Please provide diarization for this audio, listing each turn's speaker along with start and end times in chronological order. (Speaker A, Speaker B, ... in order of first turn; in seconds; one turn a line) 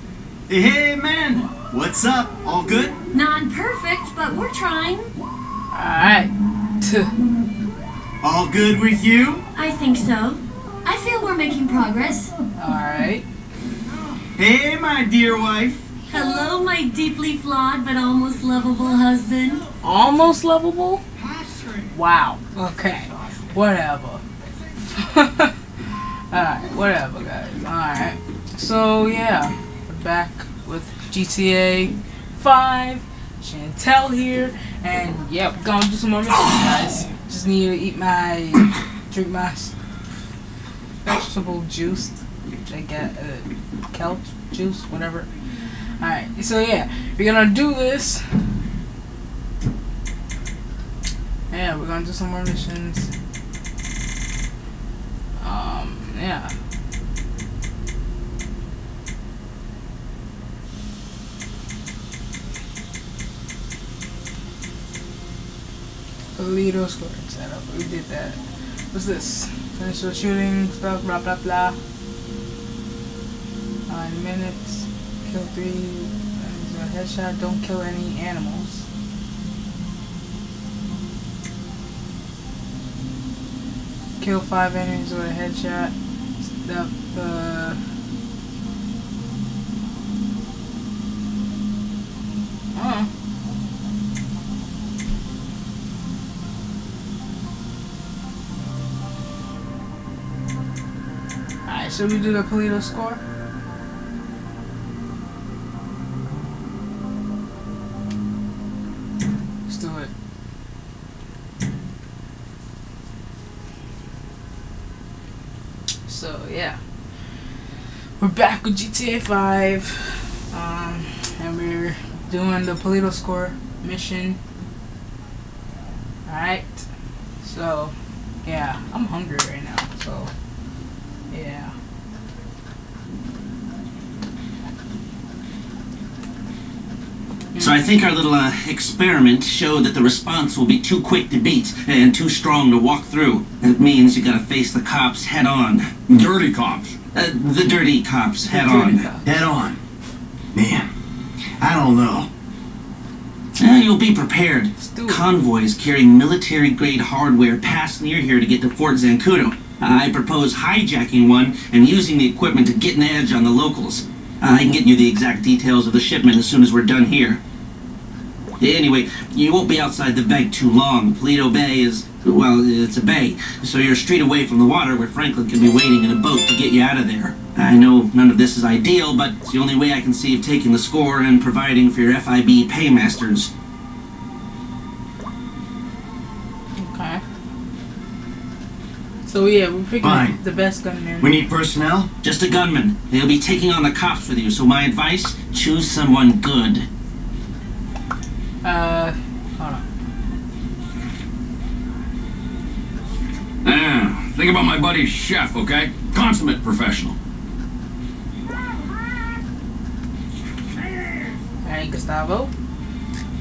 Speaker A: 0.5-3.0
Speaker B: 3.1-5.1
Speaker C: 5.7-7.1
Speaker A: 8.2-9.4
Speaker B: 9.6-12.3
Speaker C: 12.6-13.2
Speaker A: 14.4-15.8
Speaker B: 16.1-19.7
Speaker C: 19.8-21.0
Speaker C: 21.9-24.2
Speaker C: 24.9-25.6
Speaker C: 26.3-39.8
Speaker C: 41.0-45.3
Speaker C: 46.0-48.2
Speaker C: 51.5-53.1
Speaker C: 55.4-56.5
Speaker C: 66.4-68.4
Speaker C: 68.9-71.8
Speaker C: 73.9-78.9
Speaker C: 84.2-87.8
Speaker C: 92.7-93.1
Speaker C: 101.7-103.2
Speaker C: 109.7-110.1
Speaker C: 116.1-116.8
Speaker C: 118.2-124.4
Speaker C: 126.3-126.9
Speaker C: 127.4-127.9
Speaker C: 128.4-130.3
Speaker C: 131.3-131.7
Speaker C: 137.5-137.8
Speaker D: 137.6-145.9
Speaker E: 146.1-147.0
Speaker D: 147.2-149.1
Speaker C: 148.5-149.4
Speaker A: 149.2-149.8
Speaker A: 150.5-150.9
Speaker A: 151.6-152.3
Speaker D: 153.6-167.4
Speaker C: 154.8-155.3
Speaker D: 168.6-183.5
Speaker C: 186.8-187.2
Speaker C: 189.3-191.4
Speaker A: 190.0-190.4
Speaker A: 191.2-192.1
Speaker D: 192.2-196.9
Speaker C: 198.6-199.8
Speaker E: 203.6-207.2
Speaker C: 211.6-212.5